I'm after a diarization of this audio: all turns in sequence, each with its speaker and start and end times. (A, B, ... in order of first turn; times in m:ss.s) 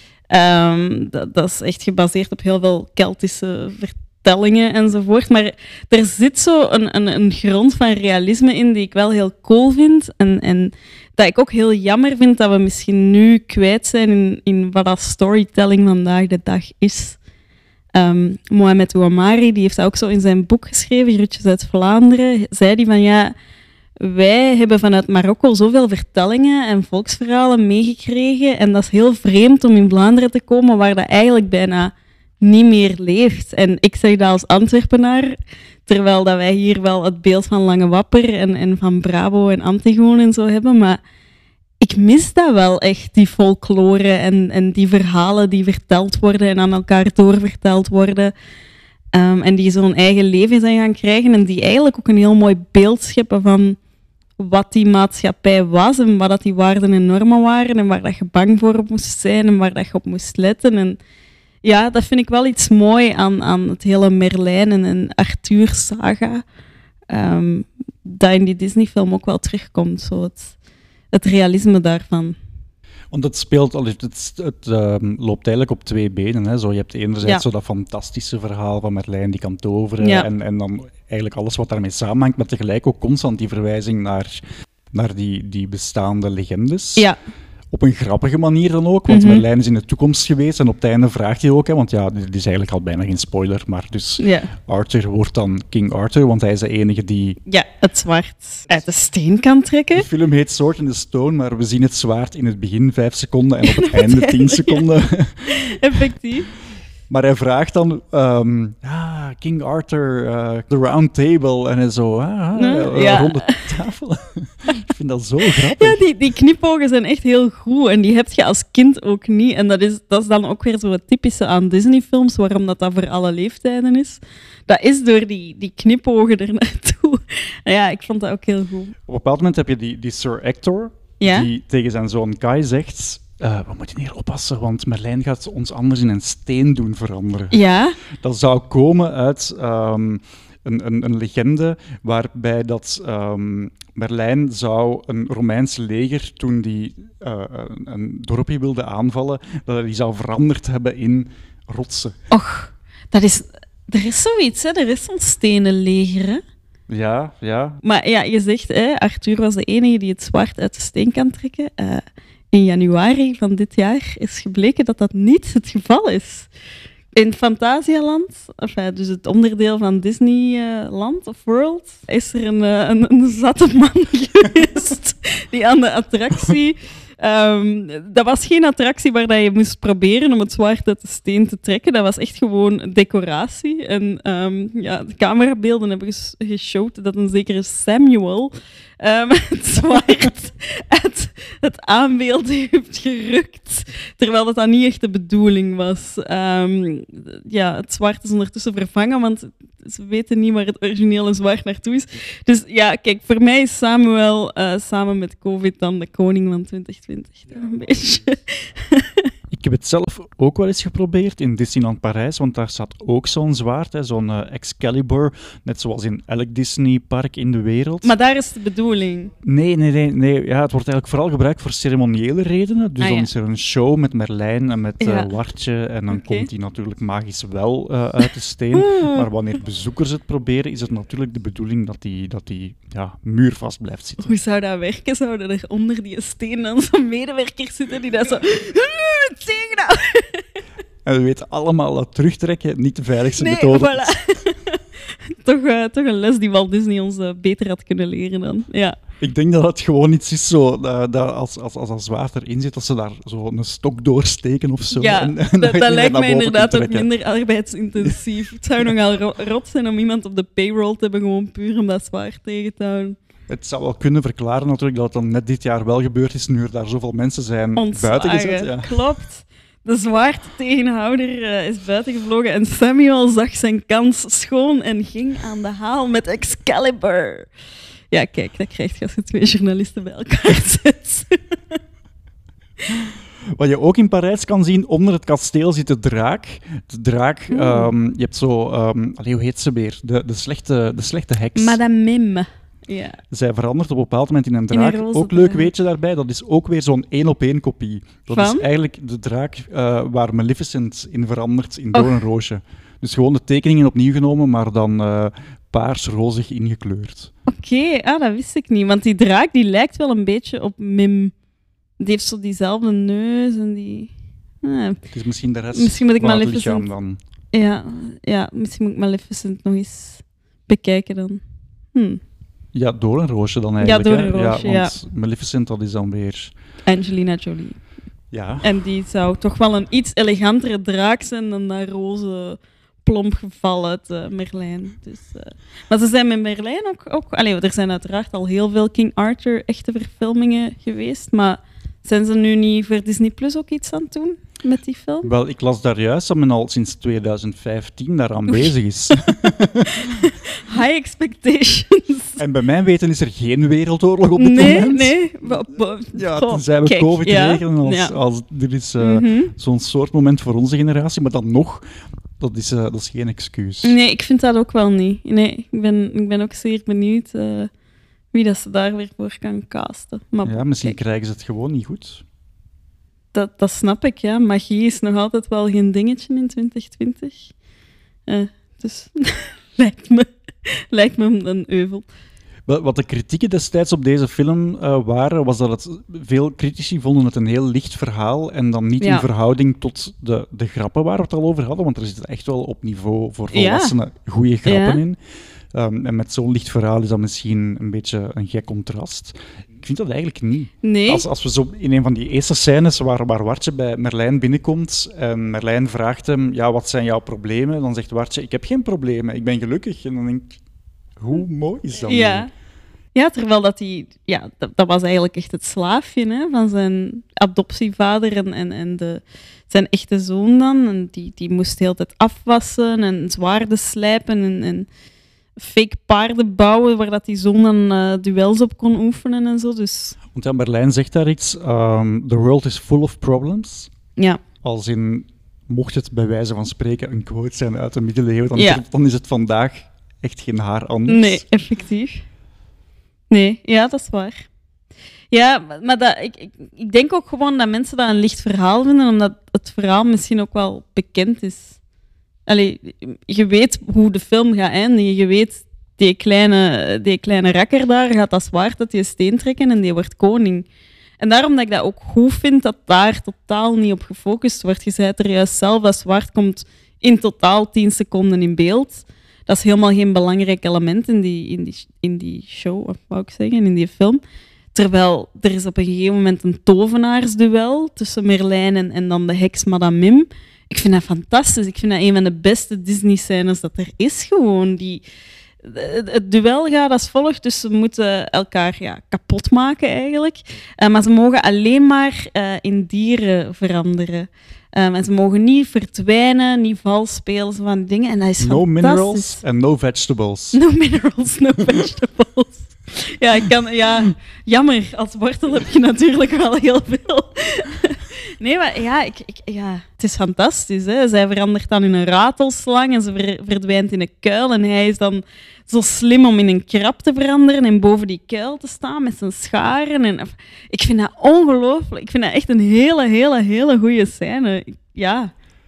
0:00.3-0:17.2 A
0:17.9-0:23.3 A
0:24.0-0:41.0 A
0:41.8-0:48.3 A
0:49.1-0:53.8 A
0:54.4-1:01.0 A
1:01.6-1:06.4 A
1:07.1-1:10.5 A
1:11.1-1:12.4 A
1:13.1-1:27.1 B
1:20.0-1:20.3 A
1:27.7-1:37.4 B
1:29.1-1:29.4 A
1:34.2-1:34.5 A
1:37.5-1:40.0 A
1:39.9-1:45.8 B
1:43.6-1:44.8 A
1:45.4-1:46.5 A
1:47.1-1:56.0 B
1:52.5-1:53.6 A
1:55.7-2:09.0 A
2:09.1-2:17.6 B
2:11.2-2:11.5 A
2:17.5-2:18.0 A
2:18.1-2:32.2 B
2:32.3-2:36.4 A
2:36.9-2:37.8 B
2:37.8-2:46.5 A
2:47.1-3:29.3 A
3:29.5-3:38.2 B
3:38.0-3:39.3 A
3:39.4-3:54.3 B
3:43.0-3:43.3 A
3:45.0-3:45.3 A
3:46.1-3:46.5 A
3:48.7-3:49.3 A
3:54.2-4:00.4 A
4:01.0-4:04.2 B
4:03.4-4:09.0 A
4:09.2-4:17.1 B
4:14.9-4:23.2 A
4:23.5-4:29.0 B
4:27.8-4:37.5 A
4:38.1-4:41.8 A
4:43.5-4:51.8 B
4:47.5-4:47.9 A
4:51.6-4:53.2 A
4:53.3-5:07.3 B
4:54.7-4:55.7 A
4:58.3-4:58.6 A
5:01.9-5:02.2 A
5:07.5-5:11.3 A
5:12.0-5:14.1 A
5:14.6-5:15.0 A
5:15.1-5:17.2 B
5:15.7-5:16.9 A
5:17.5-5:21.4 A
5:21.9-5:22.2 A
5:22.7-5:26.5 B
5:23.8-5:24.9 A
5:26.8-5:27.8 A
5:28.3-5:28.7 B
5:28.6-5:45.3 A
5:45.2-5:50.3 B
5:49.9-5:52.4 A
5:52.4-5:55.2 B
5:54.4-5:58.1 A
5:56.1-6:01.8 B
5:59.0-5:59.5 A
6:02.4-6:04.0 B
6:03.8-6:07.7 A
6:08.3-6:11.0 A
6:10.4-6:12.2 B
6:13.3-6:17.5 A
6:18.3-6:22.0 A
6:22.7-6:35.2 B
6:29.0-6:29.3 A
6:33.5-6:33.9 A
6:34.6-6:35.0 A
6:35.7-6:50.6 B
6:40.8-6:41.2 A
6:51.2-6:52.5 B
6:52.0-6:52.5 A
6:53.1-7:04.9 A
7:05.6-7:10.2 A
7:10.3-7:13.9 B
7:14.6-7:21.4 B
7:18.6-7:18.8 A
7:21.1-7:22.2 A
7:23.3-7:24.4 A
7:25.3-7:31.8 A
7:32.4-7:40.6 A
7:41.2-7:54.2 A
7:54.7-8:05.0 A
8:05.6-8:19.4 A
8:18.4-8:20.6 B
8:20.5-8:45.3 A